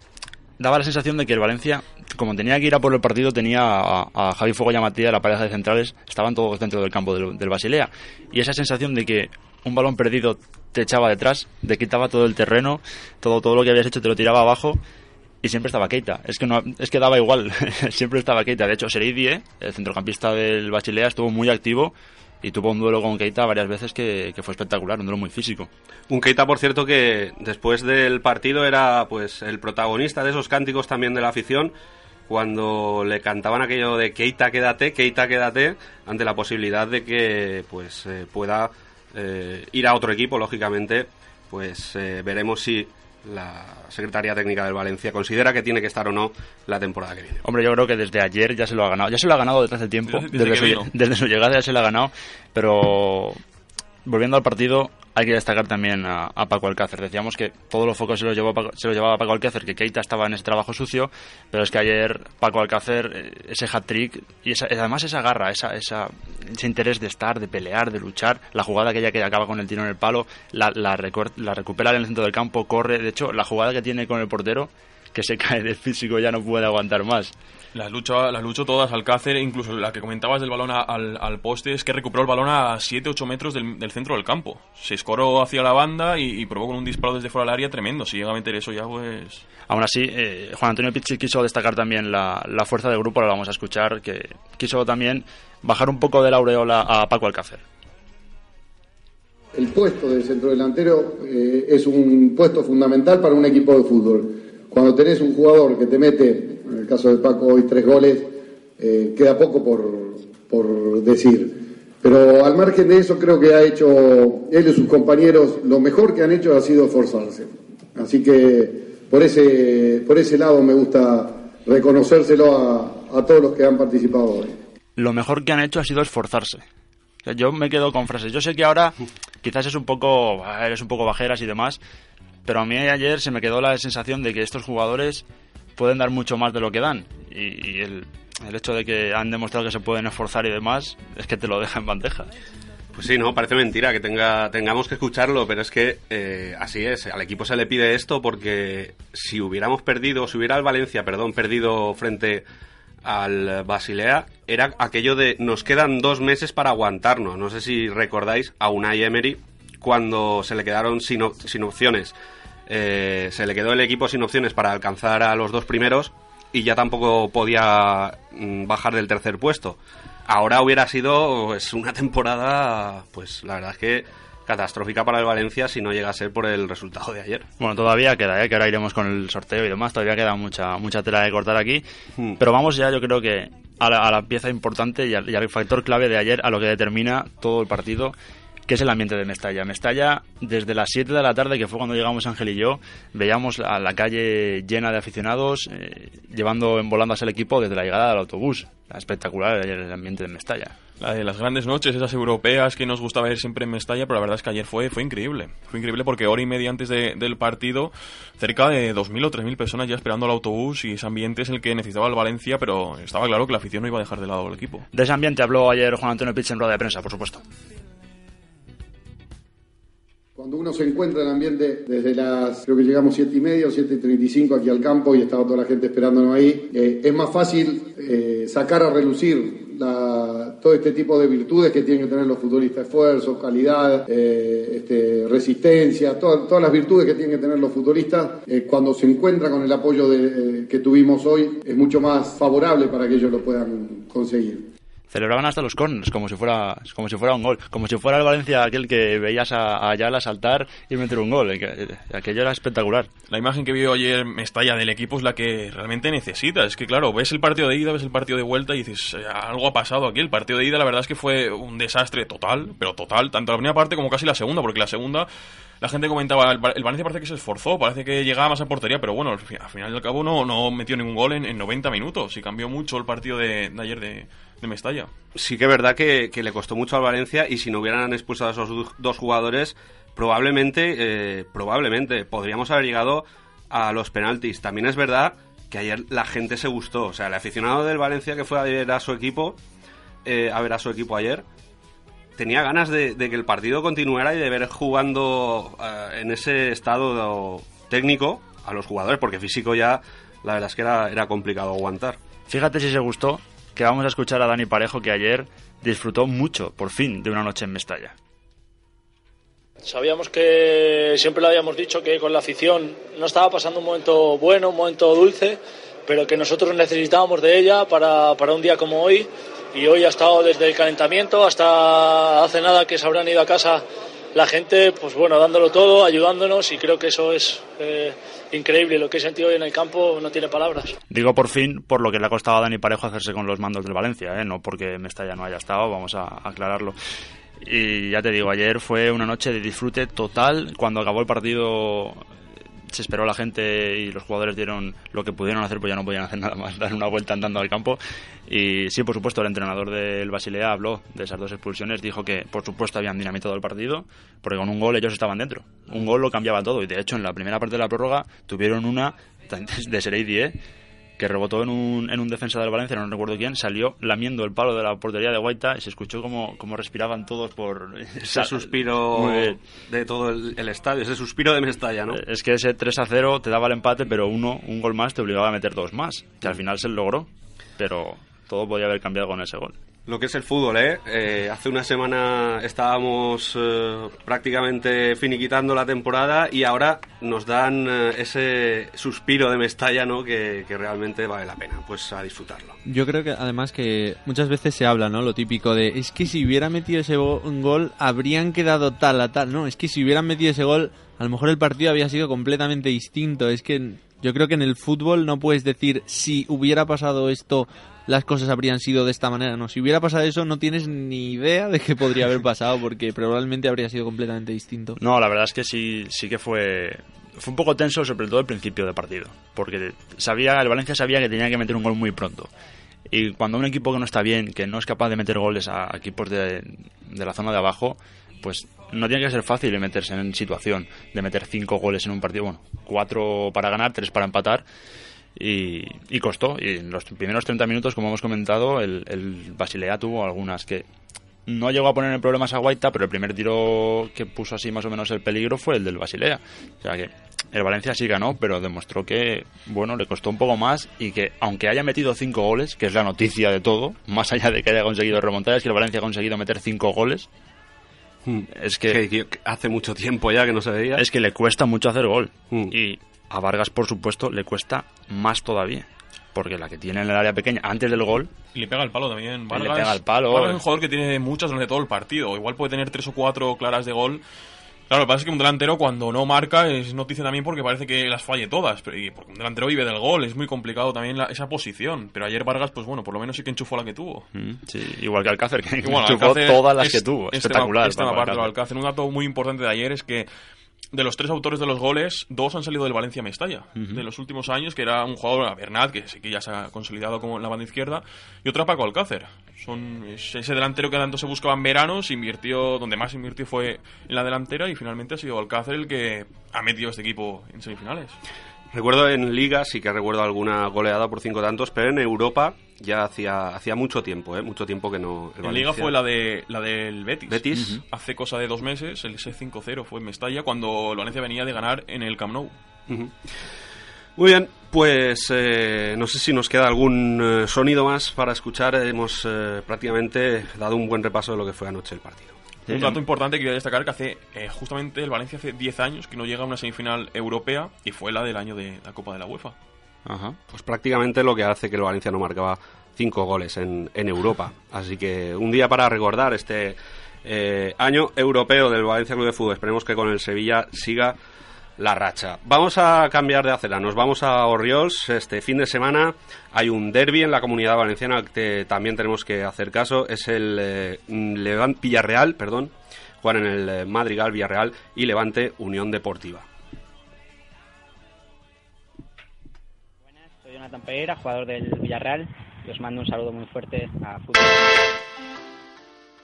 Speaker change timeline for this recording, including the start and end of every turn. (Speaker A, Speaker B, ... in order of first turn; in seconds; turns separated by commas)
Speaker A: 0.6-14.8, Speaker A: 15.4-25.7, Speaker B: 26.1-31.7, Speaker B: 32.3-47.4, Speaker A: 47.4-53.4, Speaker C: 50.1-50.9, Speaker A: 54.0-77.3, Speaker C: 77.7-89.4, Speaker A: 89.7-97.6, Speaker D: 99.5-124.6, Speaker A: 125.0-126.6, Speaker A: 127.2-131.8, Speaker A: 132.4-135.2, Speaker A: 135.8-142.3, Speaker B: 142.9-152.4, Speaker B: 153.0-162.2, Speaker B: 162.7-177.5, Speaker A: 177.6-181.8, Speaker A: 182.4-188.2, Speaker A: 188.7-200.7, Speaker C: 201.0-214.8, Speaker A: 214.9-217.4, Speaker D: 220.3-244.7, Speaker A: 245.1-253.1, Speaker C: 253.3-265.3, Speaker C: 265.8-275.1, Speaker B: 275.3-289.6, Speaker B: 290.2-291.4, Speaker B: 292.4-302.2, Speaker A: 302.5-308.1, Speaker E: 309.8-330.9, Speaker A: 331.1-336.9, Speaker A: 337.6-342.3, Speaker A: 342.9-360.5, Speaker A: 361.2-369.6, Speaker B: 368.2-372.2, Speaker A: 372.1-379.8, Speaker B: 380.1-392.8, Speaker F: 392.9-415.0, Speaker A: 415.0-422.5, Speaker A: 423.1-434.6, Speaker A: 435.4-440.9, Speaker A: 441.4-457.3, Speaker B: 458.2-461.0, Speaker A: 458.5-459.0, Speaker A: 460.9-468.3, Speaker C: 468.5-474.2, Speaker A: 469.5-470.6, Speaker C: 474.9-484.3, Speaker A: 484.4-488.5, Speaker C: 485.8-490.3, Speaker C: 490.9-508.1, Speaker A: 493.8-494.0, Speaker B: 508.7-515.9, Speaker C: 515.4-522.5, Speaker B: 517.3-517.8, Speaker A: 517.5-517.8, Speaker B: 522.9-523.1, Speaker B: 524.2-532.3, Speaker A: 532.7-533.0, Speaker C: 532.7-539.5, Speaker A: 540.0-540.4, Speaker B: 540.5-551.1, Speaker B: 551.8-566.5, Speaker G: 570.1-574.8